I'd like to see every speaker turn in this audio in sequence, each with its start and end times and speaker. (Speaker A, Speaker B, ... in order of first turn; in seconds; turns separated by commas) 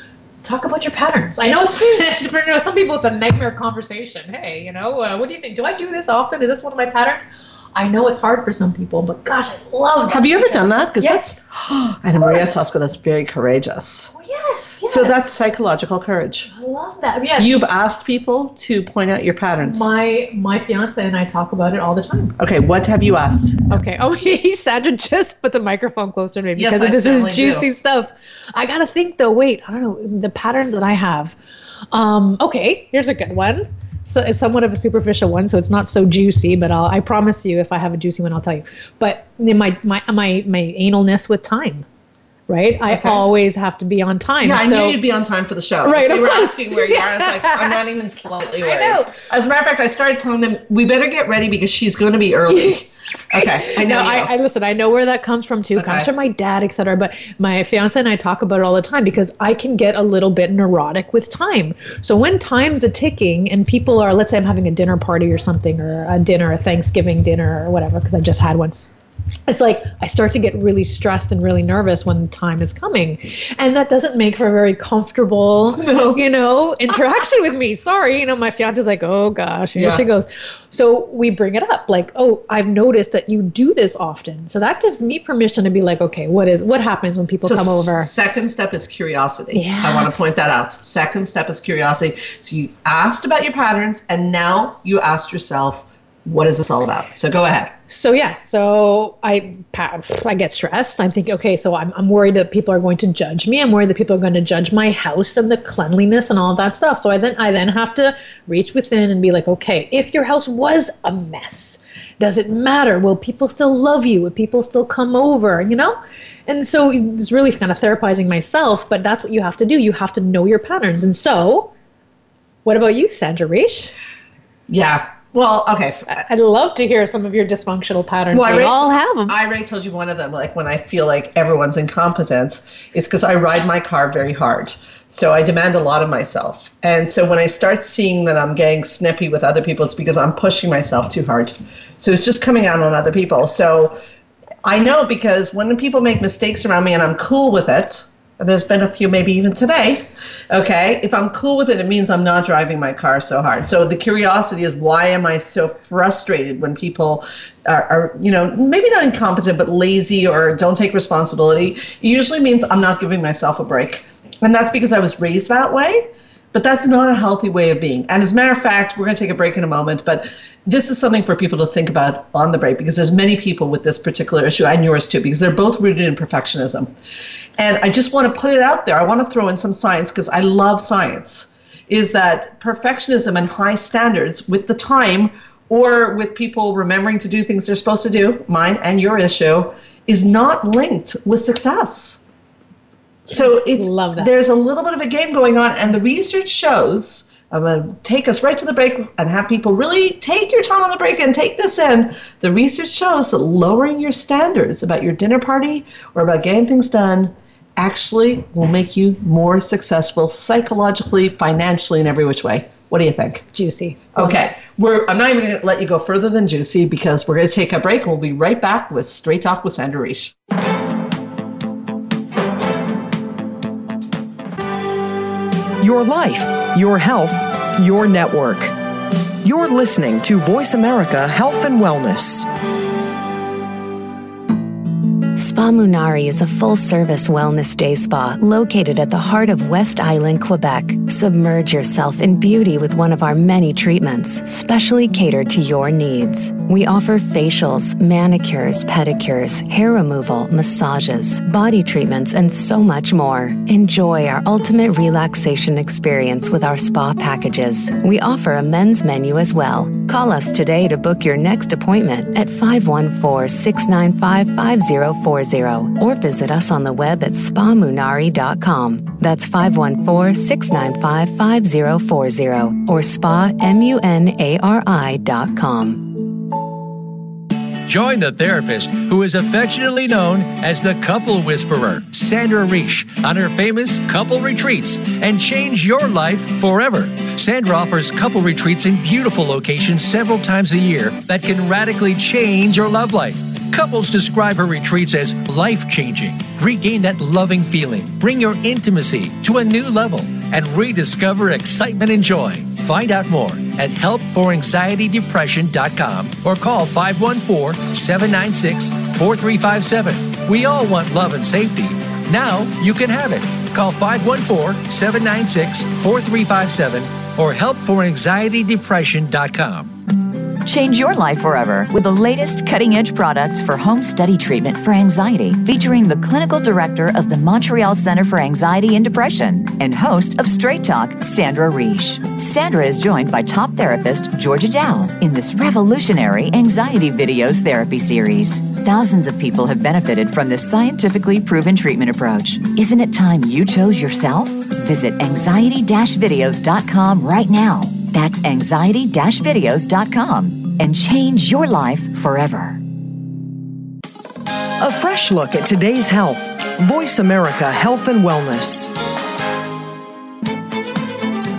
Speaker A: 0.4-11.4, Speaker B: 10.1-14.1, Speaker A: 12.2-12.7, Speaker A: 14.1-15.2, Speaker B: 14.9-16.5, Speaker A: 16.5-17.6, Speaker B: 17.4-19.9, Speaker A: 19.6-22.4, Speaker B: 22.4-23.8, Speaker A: 23.7-31.4, Speaker B: 26.6-27.7, Speaker A: 31.9-41.9, Speaker A: 42.5-45.0, Speaker B: 42.9-43.2, Speaker B: 44.4-54.3, Speaker A: 45.8-47.8, Speaker A: 48.6-49.1, Speaker A: 52.5-68.7, Speaker B: 55.8-56.1, Speaker A: 69.5-88.1, Speaker B: 75.8-76.2, Speaker B: 79.8-80.0, Speaker B: 87.4-97.7, Speaker A: 89.5-90.1, Speaker A: 97.9-121.7, Speaker A: 122.7-123.9, Speaker B: 124.7-126.2, Speaker A: 126.1-129.4, Speaker B: 128.3-144.0, Speaker B: 144.6-176.9, Speaker B: 177.6-192.3, Speaker A: 193.3-194.3, Speaker B: 193.3-213.5, Speaker A: 213.5-214.4, Speaker B: 214.2-220.3, Speaker C: 225.8-228.7, Speaker C: 229.4-232.5, Speaker D: 235.3-276.1, Speaker E: 277.9-319.9, Speaker F: 320.6-352.8, Speaker C: 354.8-358.9